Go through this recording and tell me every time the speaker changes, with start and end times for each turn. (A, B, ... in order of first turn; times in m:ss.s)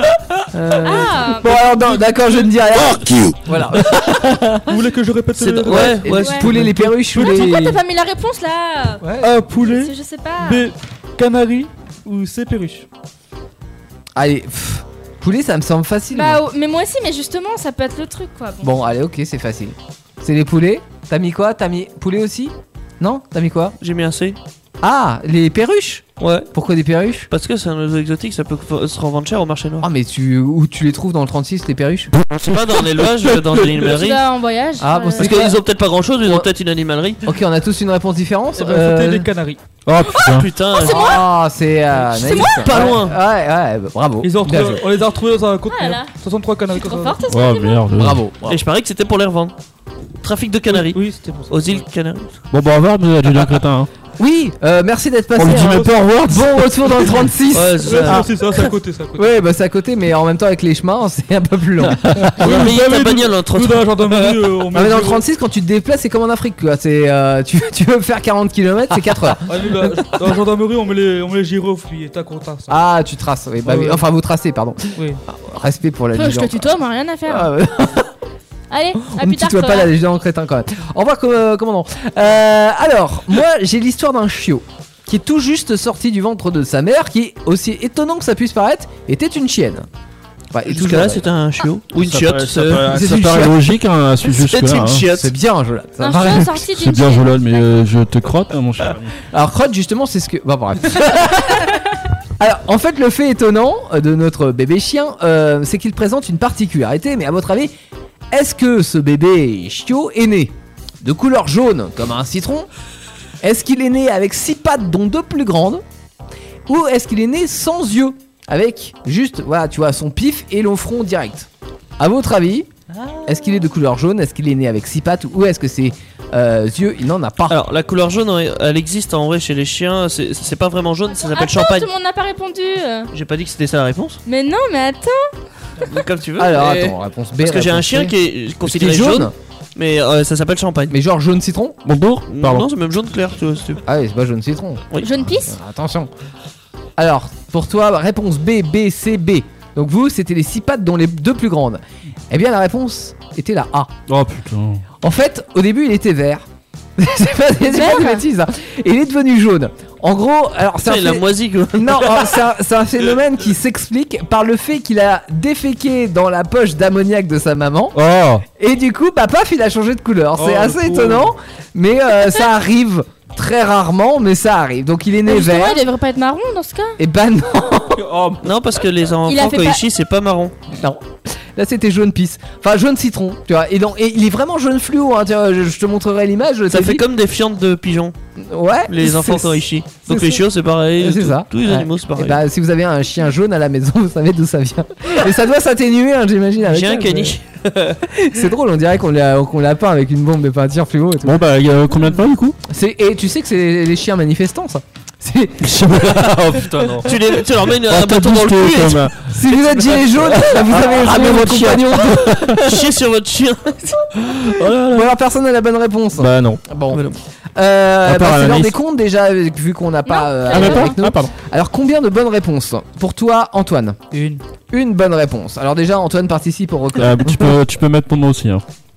0:00.5-0:04.8 A
0:00.7-0:01.0 B
0:00.8-0:01.6 C
0:01.5-0:02.5 D
0:02.7-0:03.4 E
0:04.7-0:07.5 D
0:05.4-0:06.7 B
0:05.6-0:07.8 A
0:06.2-0:06.4 C
0:07.2-0:10.7 C
0:09.0-0:09.4 A
0:09.2-0:12.9 D
0:14.2-0:16.4 A
0:16.1-0:18.8 C
0:18.6-0:23.8 A
0:23.8-0:24.4 B
0:24.8-0:27.3 A
0:26.2-0:26.5 B
0:27.3-0:29.9 B
0:29.8-0:32.1 A
0:32.4-0:34.3 B
0:33.8-0:35.3 C
0:34.8-0:35.6 A
0:35.2-0:37.2 B
0:37.2-0:39.3 A
0:38.6-0:39.6 D
0:39.9-0:40.5 E
0:40.2-0:41.3 B
0:40.8-0:41.2 C
0:40.8-0:44.8 A
0:42.2-0:43.2 B
0:42.2-0:42.9 C
0:44.2-0:47.2 D
0:45.7-0:46.1 C
0:46.7-0:47.8 C
0:47.3-0:48.2 E
0:48.0-0:48.6 A
0:48.5-0:49.5 B
0:50.2-0:52.4 B
0:50.7-0:51.8 D
0:52.5-0:53.9 E
0:54.2-0:58.3 A
0:55.4-0:57.1 E
0:55.5-0:56.0 D
0:57.5-0:58.7 B
0:57.8-0:59.3 D
0:59.2-1:02.4 A
1:02.0-1:03.0 E
1:02.4-1:04.4 B
1:02.4-1:05.2 D
1:04.7-1:10.1 A
1:09.4-1:12.8 D
1:12.7-1:16.7 A
1:13.6-1:14.0 D
1:15.0-1:15.2 D
1:16.1-1:17.5 C
1:17.3-1:18.1 A
1:18.7-1:19.9 C
1:19.0-1:29.9 A
1:30.5-1:31.3 A
1:30.7-1:33.0 B
1:32.0-1:35.1 E
1:32.9-1:33.6 A
1:34.2-1:35.3 B
1:35.1-1:36.6 A
1:36.0-1:37.6 C
1:36.6-1:39.1 E
1:39.3-1:41.8 A
1:42.4-1:47.7 A
1:48.3-1:52.7 A
1:53.4-1:55.8 A
1:56.7-2:01.5 A
2:02.0-2:02.7 A
2:03.2-2:07.6 A
2:07.5-2:11.9 B
2:11.1-2:13.1 C
2:13.1-2:14.2 B
2:14.3-2:15.2 C
2:15.8-2:21.0 B
2:16.4-2:19.3 A
2:20.9-2:21.8 A
2:21.8-2:22.7 E
2:22.3-2:23.8 B
2:23.9-2:26.1 A
2:25.0-2:25.6 C
2:27.0-2:33.9 A
2:34.1-2:34.8 E
2:35.0-2:36.4 A
2:37.0-2:48.0 A
2:37.6-2:38.2 C
2:40.8-2:42.5 B
2:47.9-2:48.4 E
2:48.5-2:55.8 A
2:50.4-2:51.3 D
2:55.2-2:57.0 C
2:57.0-2:58.0 A
2:58.0-2:58.4 E
2:58.4-3:00.5 B
2:59.3-2:59.8 C
3:00.7-3:07.0 A
3:06.7-3:08.1 B
3:08.4-3:10.4 A
3:08.9-3:12.4 B
3:11.0-3:17.4 A
3:16.6-3:18.0 B
3:18.0-3:21.4 A
3:21.2-3:22.6 E
3:22.7-3:27.0 A
3:25.6-3:27.1 E
3:27.0-3:29.1 B
3:27.8-3:32.7 E
3:29.3-3:32.8 A
3:32.6-3:33.9 B
3:33.9-3:37.0 A
3:34.4-3:35.1 E
3:36.2-3:36.6 E
3:36.9-3:37.2 B
3:37.6-3:44.0 A
3:38.0-3:38.8 E
3:40.1-3:40.9 C
3:40.5-3:41.3 E
3:44.1-3:44.4 D
3:44.7-3:47.6 A
3:47.0-3:48.6 E